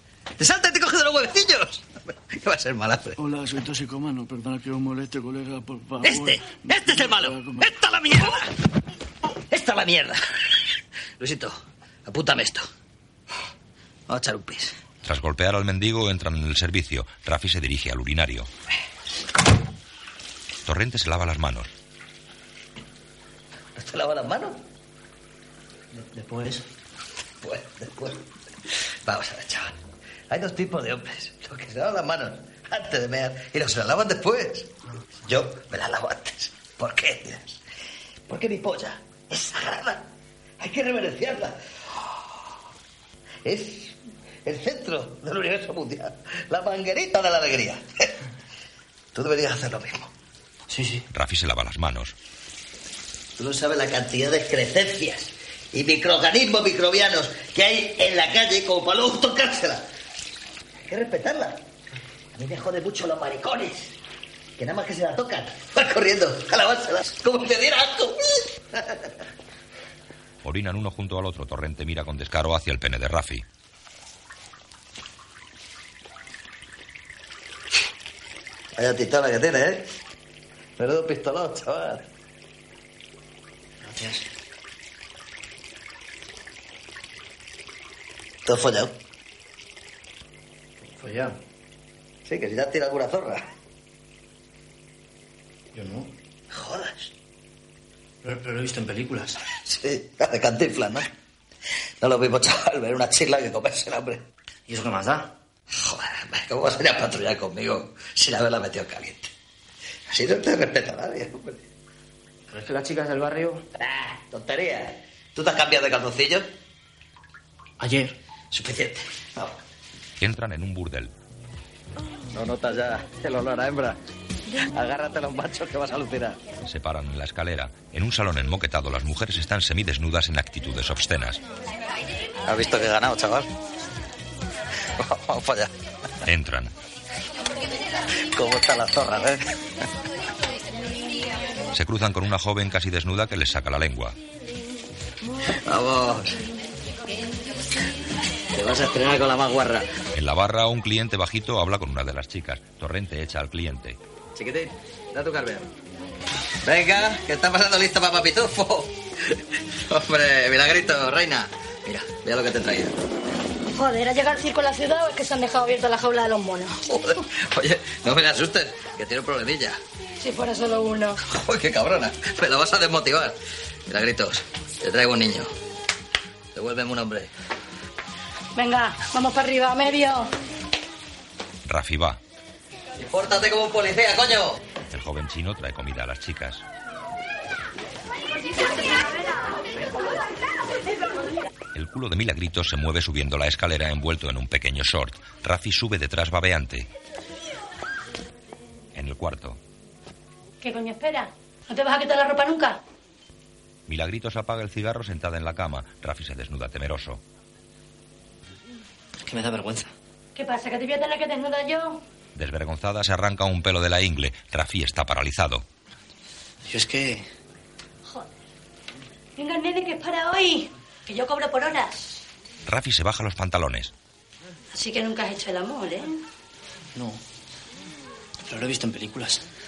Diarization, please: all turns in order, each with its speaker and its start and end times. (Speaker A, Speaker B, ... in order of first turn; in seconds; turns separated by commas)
Speaker A: 0.4-3.1, Speaker B: 3.2-7.7, Speaker A: 6.0-8.5, Speaker A: 9.5-10.2, Speaker A: 11.2-12.7, Speaker A: 14.1-14.7, Speaker C: 15.0-18.5, Speaker C: 20.7-21.7, Speaker A: 23.8-24.6, Speaker D: 26.1-26.6, Speaker A: 27.4-28.2, Speaker A: 29.1-29.8, Speaker A: 30.3-34.7, Speaker A: 35.3-37.6, Speaker A: 38.3-40.0, Speaker A: 40.6-41.5, Speaker A: 43.5-43.9, Speaker A: 44.5-47.9, Speaker A: 49.1-50.1, Speaker C: 51.1-52.1, Speaker A: 53.4-59.8, Speaker A: 60.9-61.5, Speaker A: 62.4-63.8, Speaker A: 64.6-68.2, Speaker C: 70.4-73.5, Speaker A: 78.8-79.8, Speaker A: 80.8-82.0, Speaker D: 83.8-84.2, Speaker A: 88.5-88.9, Speaker D: 91.0-91.3, Speaker A: 92.3-93.4, Speaker D: 95.8-96.1, Speaker A: 96.5-97.1, Speaker D: 98.2-99.3, Speaker A: 99.7-101.1, Speaker A: 102.0-104.2, Speaker D: 104.7-105.3, Speaker A: 105.7-109.3, Speaker A: 110.1-111.6, Speaker D: 112.5-113.6, Speaker A: 113.8-116.5, Speaker D: 117.8-118.1, Speaker A: 118.5-119.5, Speaker C: 120.2-121.1, Speaker A: 122.3-124.0, Speaker A: 124.6-126.4, Speaker C: 126.6-131.4, Speaker A: 132.5-133.5, Speaker A: 135.0-135.7, Speaker C: 136.2-136.7, Speaker A: 138.3-139.4, Speaker C: 141.7-144.2, Speaker A: 145.7-146.4, Speaker A: 148.5-149.9, Speaker C: 150.1-154.0, Speaker A: 154.4-155.7, Speaker A: 156.7-158.9, Speaker A: 159.9-162.9, Speaker E: 163.7-166.8, Speaker A: 166.8-169.8, Speaker E: 170.2-171.2, Speaker A: 171.3-173.4, Speaker A: 173.9-175.5, Speaker A: 176.6-177.3, Speaker E: 178.6-180.3, Speaker C: 181.7-182.2, Speaker A: 183.0-184.6, Speaker C: 184.9-186.6, Speaker C: 191.7-196.9, Speaker C: 198.9-199.6, Speaker E: 200.6-202.8, Speaker C: 203.9-207.2, Speaker D: 209.3-209.9, Speaker E: 210.3-212.0, Speaker C: 212.3-215.7, Speaker D: 216.7-217.2, Speaker E: 219.4-222.2, Speaker C: 222.7-223.9, Speaker E: 224.7-226.2, Speaker D: 228.5-229.4